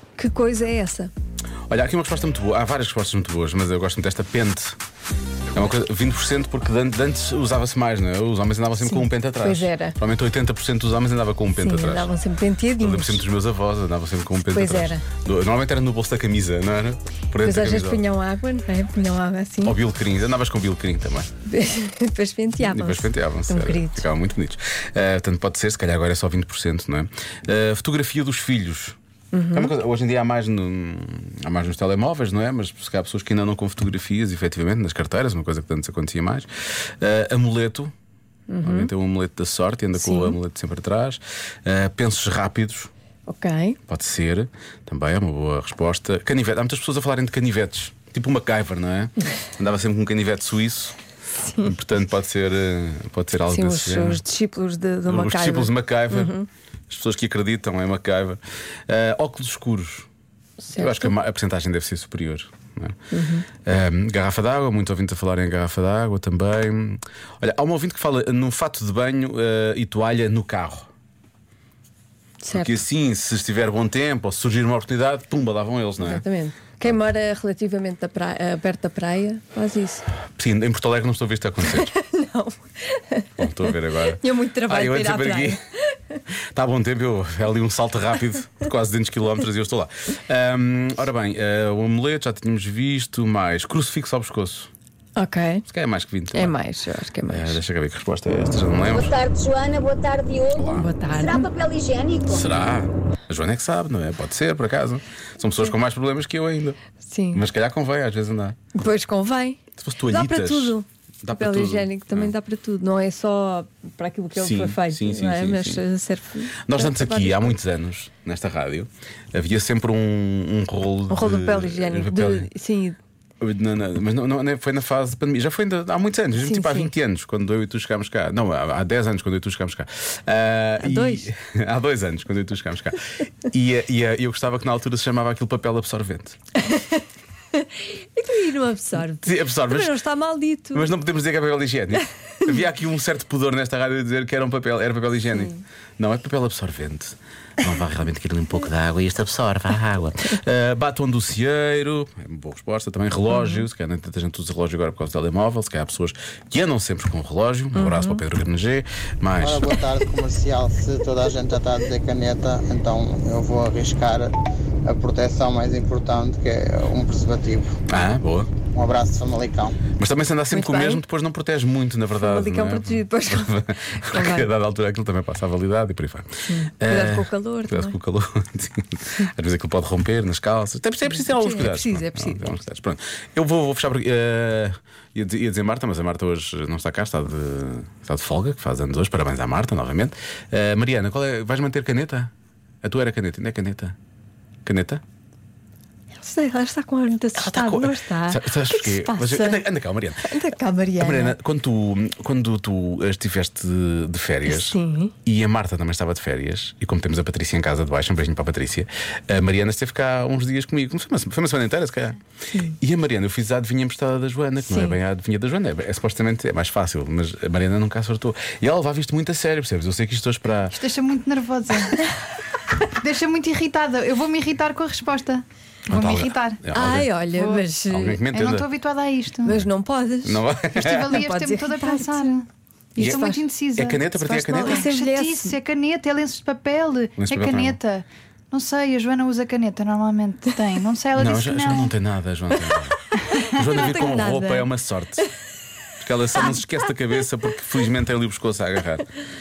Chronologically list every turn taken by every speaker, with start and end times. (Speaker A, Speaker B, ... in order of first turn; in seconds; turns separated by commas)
Speaker A: 0.2-1.1, Speaker B: 1.7-4.8, Speaker B: 5.5-12.1, Speaker A: 8.8-10.0, Speaker A: 11.6-13.2, Speaker B: 12.8-18.0, Speaker A: 14.5-15.0, Speaker A: 17.4-19.8, Speaker B: 19.6-21.3, Speaker A: 21.5-24.1, Speaker B: 22.6-29.0, Speaker A: 29.3-29.7, Speaker B: 29.5-36.5, Speaker B: 37.0-37.9, Speaker A: 38.5-38.9, Speaker B: 38.6-42.9, Speaker A: 40.0-40.4, Speaker A: 43.3-43.8, Speaker B: 43.9-51.0, Speaker A: 51.4-51.7, Speaker B: 51.6-54.2, Speaker A: 53.5-56.5, Speaker B: 55.1-56.4, Speaker B: 56.9-60.1, Speaker A: 60.6-61.1, Speaker B: 60.7-63.0, Speaker A: 63.1-63.5, Speaker B: 63.6-70.9, Speaker A: 72.4-72.8, Speaker B: 72.5-76.2, Speaker A: 76.0-80.1, Speaker B: 80.3-81.9, Speaker A: 81.7-86.2, Speaker B: 83.4-85.6, Speaker B: 86.3-94.7, Speaker A: 95.2-95.7, Speaker B: 95.7-96.6, Speaker A: 96.3-97.6, Speaker B: 97.3-99.2, Speaker C: 98.9-102.4, Speaker B: 100.5-100.9, Speaker A: 100.7-101.5, Speaker B: 102.2-106.8, Speaker A: 107.0-107.4, Speaker B: 107.3-108.6, Speaker A: 108.7-117.6, Speaker B: 109.8-112.3, Speaker B: 114.4-115.8, Speaker B: 116.6-122.5, Speaker A: 121.1-123.0, Speaker B: 123.4-136.4, Speaker A: 126.4-126.9, Speaker A: 130.8-131.3, Speaker A: 136.6-140.9, Speaker B: 139.2-140.0, Speaker B: 140.7-159.8, Speaker A: 153.3-153.6, Speaker A: 157.8-158.2, Speaker D: 159.4-164.3, Speaker D: 164.8-167.8, Speaker B: 167.9-168.5, Speaker D: 168.7-169.8, Speaker B: 170.0-192.3, Speaker A: 170.5-171.0, Speaker A: 172.2-174.5, Speaker A: 176.5-178.0, Speaker A: 181.1-182.6, Speaker B: 192.8-193.9, Speaker B: 194.7-195.0, Speaker A: 196.2-199.6, Speaker B: 197.3-200.3, Speaker A: 200.2-201.4, Speaker B: 201.0-212.2, Speaker A: 204.5-205.1, Speaker B: 212.8-220.8, Speaker A: 214.6-215.0, Speaker E: 220.7-222.0, Speaker E: 222.9-226.7, Speaker B: 225.9-227.1, Speaker A: 226.7-228.2, Speaker E: 227.3-227.7, Speaker B: 227.9-228.7, Speaker E: 228.3-229.7, Speaker A: 229.4-230.4, Speaker B: 230.2-231.2, Speaker E: 230.7-241.9, Speaker A: 231.1-232.3, Speaker A: 233.0-233.5, Speaker B: 233.0-234.9, Speaker A: 234.3-235.6, Speaker B: 237.2-237.8, Speaker B: 241.2-245.3, Speaker A: 243.3-244.7, Speaker B: 246.0-249.1